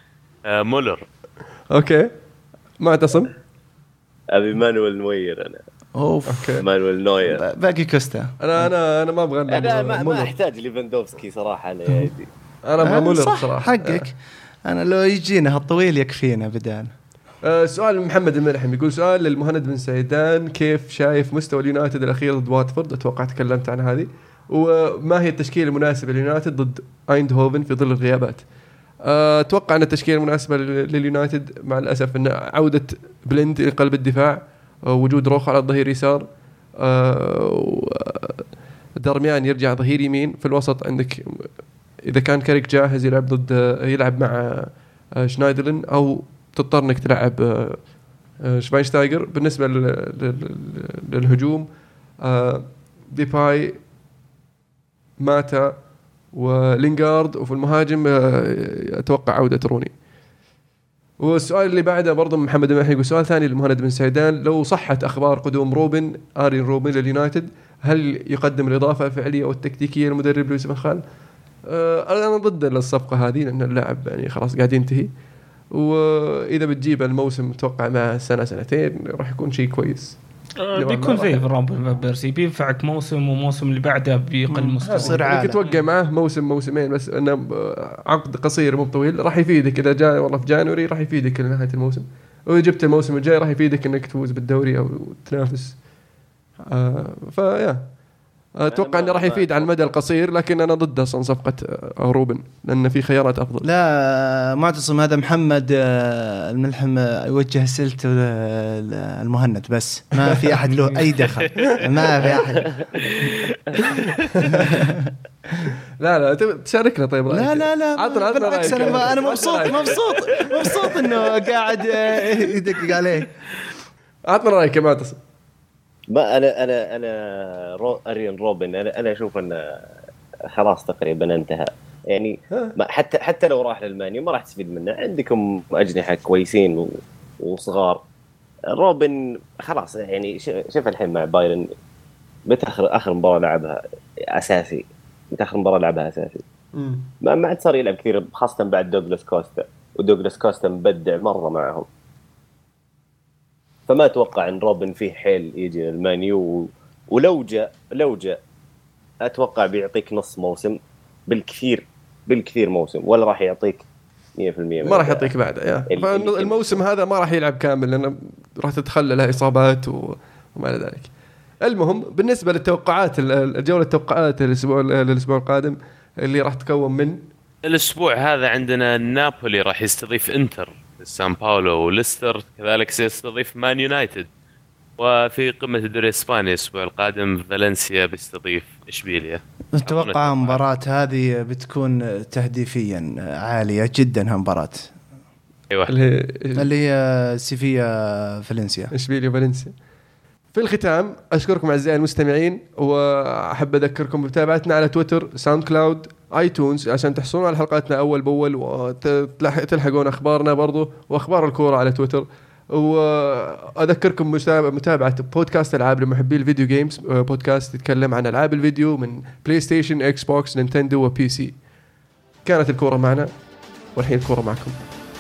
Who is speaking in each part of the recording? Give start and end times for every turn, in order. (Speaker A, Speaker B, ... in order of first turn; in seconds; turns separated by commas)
Speaker A: 0.4-1.1, Speaker B: 1.7-2.1, Speaker B: 2.8-3.3, Speaker C: 4.3-5.6, Speaker D: 6.0-6.6, Speaker B: 6.3-6.6, Speaker C: 6.6-7.4, Speaker D: 7.2-8.7, Speaker B: 8.4-10.3, Speaker C: 9.5-12.3, Speaker B: 12.6-14.1, Speaker D: 12.8-14.1, Speaker D: 14.7-16.9, Speaker B: 17.4-28.5, Speaker B: 29.0-38.5, Speaker B: 39.0-47.9, Speaker B: 48.4-51.7, Speaker B: 52.2-53.8, Speaker B: 55.2-59.9, Speaker B: 61.2-71.0, Speaker B: 71.7-75.1, Speaker B: 75.7-80.2, Speaker E: 80.6-85.8, Speaker B: 80.7-81.4, Speaker D: 84.5-85.6, Speaker B: 84.8-95.8, Speaker B: 96.7-97.9, Speaker B: 98.5-103.7, Speaker C: 98.7-99.9, Speaker D: 103.6-112.7, Speaker B: 111.6-111.9, Speaker C: 112.6-112.9, Speaker B: 114.0-114.7, Speaker D: 114.5-115.1, Speaker B: 116.0-121.1, Speaker D: 117.3-123.3, Speaker B: 124.3-125.2, Speaker C: 126.1-129.8, Speaker C: 130.5-138.0, Speaker B: 132.5-132.8, Speaker C: 138.7-141.7, Speaker C: 142.5-143.8, Speaker C: 144.3-146.4, Speaker B: 146.7-147.1, Speaker C: 147.2-151.9, Speaker C: 153.9-158.4, Speaker C: 159.2-163.8, Speaker C: 164.4-165.3, Speaker B: 164.8-171.1, Speaker C: 165.9-166.8, Speaker B: 171.6-177.3, Speaker A: 177.6-184.3, Speaker A: 185.0-190.6, Speaker D: 189.7-194.9, Speaker B: 195.9-196.7, Speaker D: 196.6-198.9, Speaker B: 198.9-199.7, Speaker B: 200.5-221.6, Speaker B: 222.4-223.3, Speaker B: 223.9-224.9